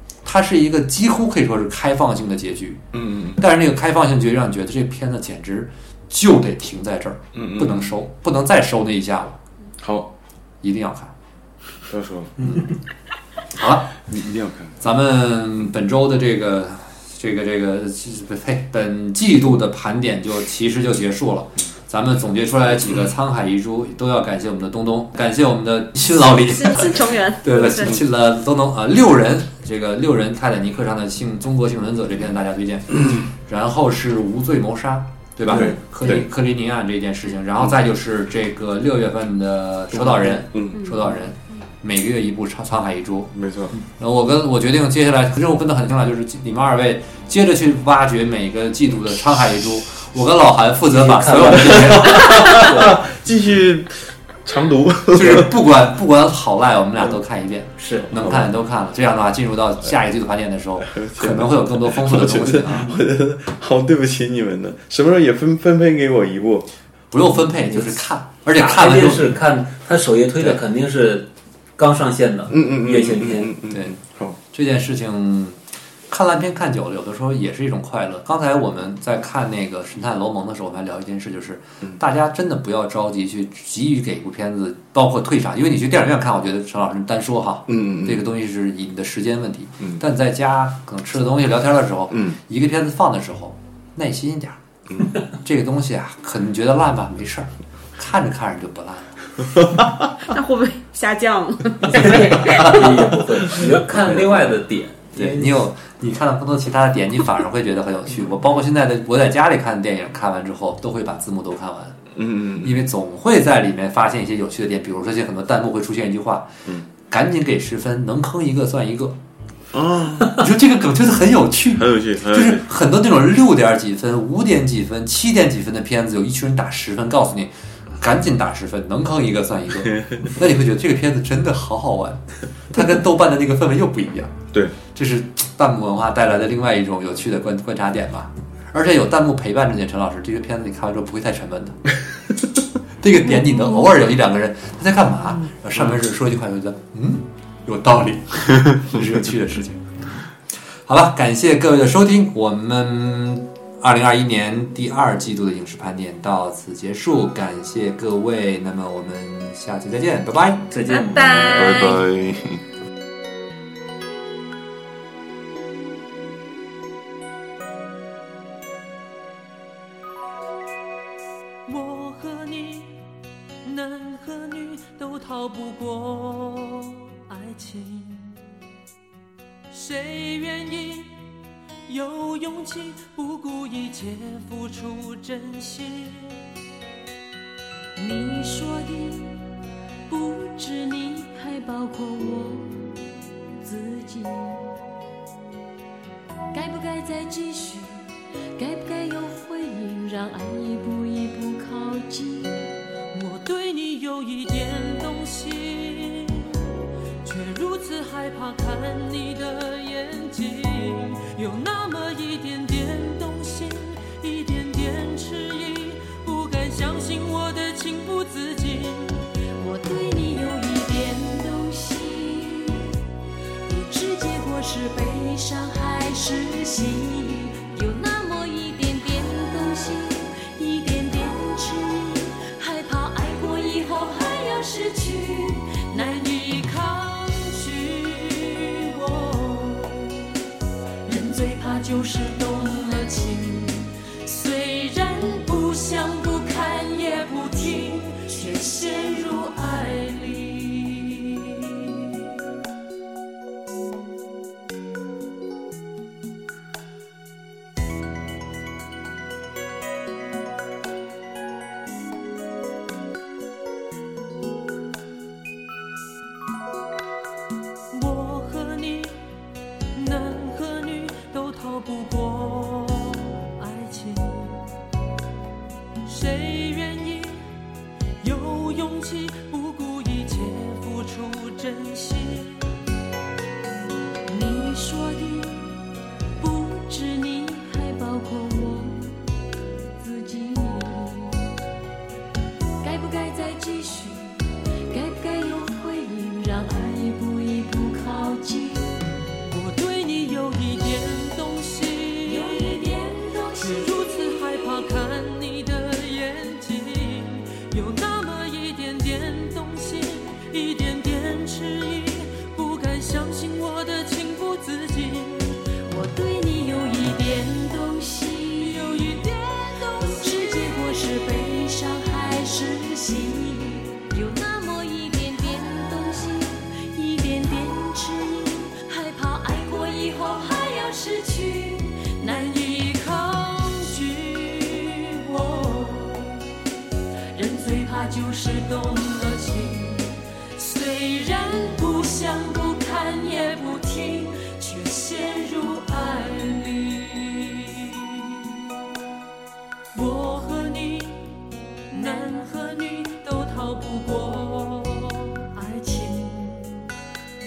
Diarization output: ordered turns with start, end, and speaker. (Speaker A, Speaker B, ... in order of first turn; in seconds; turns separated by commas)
Speaker A: 0.2-9.3, Speaker B: 2.9-3.4, Speaker B: 7.3-8.0, Speaker B: 9.8-10.1, Speaker A: 10.6-11.1, Speaker B: 11.9-12.5, Speaker A: 12.4-12.7, Speaker A: 13.5-14.0, Speaker B: 14.1-14.7, Speaker A: 14.8-43.4, Speaker C: 26.5-28.0, Speaker D: 35.5-35.8, Speaker B: 35.5-36.2, Speaker D: 39.9-40.5, Speaker B: 40.5-40.8, Speaker B: 43.3-43.7, Speaker A: 44.0-52.7, Speaker D: 50.9-53.0, Speaker B: 51.9-55.5, Speaker A: 55.1-63.0, Speaker D: 57.8-58.4, Speaker B: 60.8-66.7, Speaker A: 67.1-69.4, Speaker D: 67.6-68.0, Speaker D: 68.5-73.5, Speaker B: 72.5-74.3, Speaker A: 73.7-74.0, Speaker A: 74.5-75.6, Speaker A: 76.1-94.6, Speaker B: 87.7-88.2, Speaker B: 92.1-92.4, Speaker A: 95.3-99.2, Speaker B: 99.6-99.9, Speaker C: 100.2-102.8, Speaker D: 101.8-105.6, Speaker A: 105.2-112.0, Speaker B: 112.2-112.8, Speaker A: 112.6-116.5, Speaker A: 117.1-119.2, Speaker B: 119.7-120.4, Speaker A: 120.3-141.9, Speaker B: 121.7-122.6, Speaker B: 129.9-130.3, Speaker A: 143.0-150.0, Speaker A: 150.8-160.7, Speaker D: 160.7-161.8, Speaker C: 160.8-162.0, Speaker B: 161.3-162.6, Speaker E: 171.7-172.9, Speaker E: 173.6-178.3, Speaker E: 179.7-181.1, Speaker E: 181.9-186.3, Speaker F: 188.0-189.2, Speaker F: 190.1-192.7, Speaker F: 193.6-194.5, Speaker F: 196.5-202.7, Speaker E: 203.1-206.7, Speaker E: 207.2-219.3, Speaker F: 219.6-222.9, Speaker F: 223.7-235.9, Speaker E: 235.9-240.2, Speaker E: 241.1-251.9, Speaker E: 267.9-269.2, Speaker E: 269.9-274.6, Speaker E: 276.1-277.4, Speaker E: 278.2-282.7, Speaker F: 284.3-285.5, Speaker F: 286.4-289.1, Speaker F: 290.0-291.4, Speaker F: 292.8-298.9, Speaker E: 299.5-302.9, Speaker F: 302.2-304.9, Speaker E: 303.6-315.6, Speaker F: 315.9-319.2, Speaker E: 318.6-320.8, Speaker F: 319.9-332.6, Speaker E: 332.2-336.4, Speaker E: 337.3-348.6, Speaker E: 349.9-351.3, Speaker E: 351.9-356.8